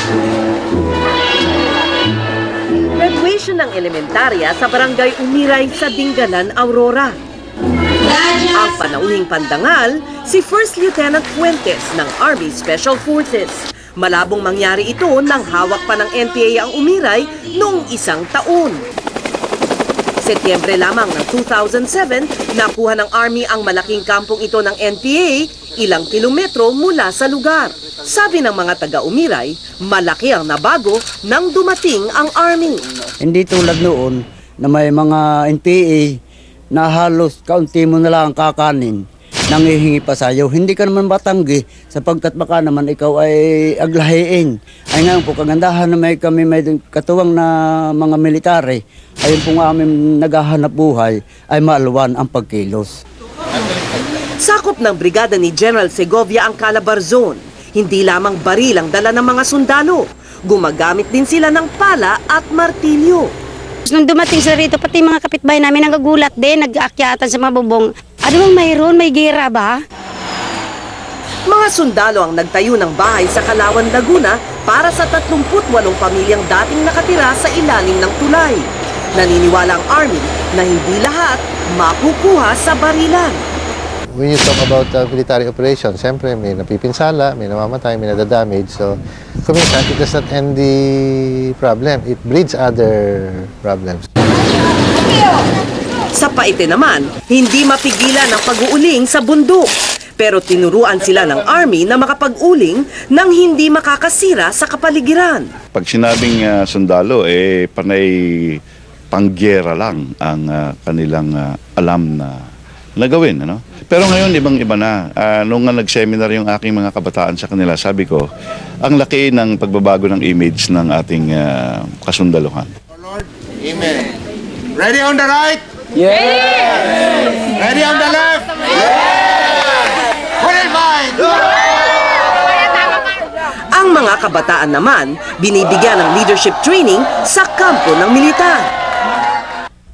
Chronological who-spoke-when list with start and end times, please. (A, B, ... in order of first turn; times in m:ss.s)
0:02.9-0:07.2 A
0:08.4-0:18.8 A
0:20.2-0:32.8 A
0:33.2-0:36.1 B
0:36.7-0:39.0 B
0:39.5-0:53.0 B
0:54.4-1:03.3 A
1:03.9-1:09.8 C
1:11.5-1:23.4 A
1:24.2-1:34.1 D
1:36.1-1:45.5 A
1:45.7-1:48.6 E
1:49.1-1:52.4 E
1:53.0-1:58.2 E
1:58.8-2:02.7 E
2:04.8-2:05.6 F
2:07.6-2:08.5 F
2:10.5-2:11.2 F
2:13.7-2:18.7 A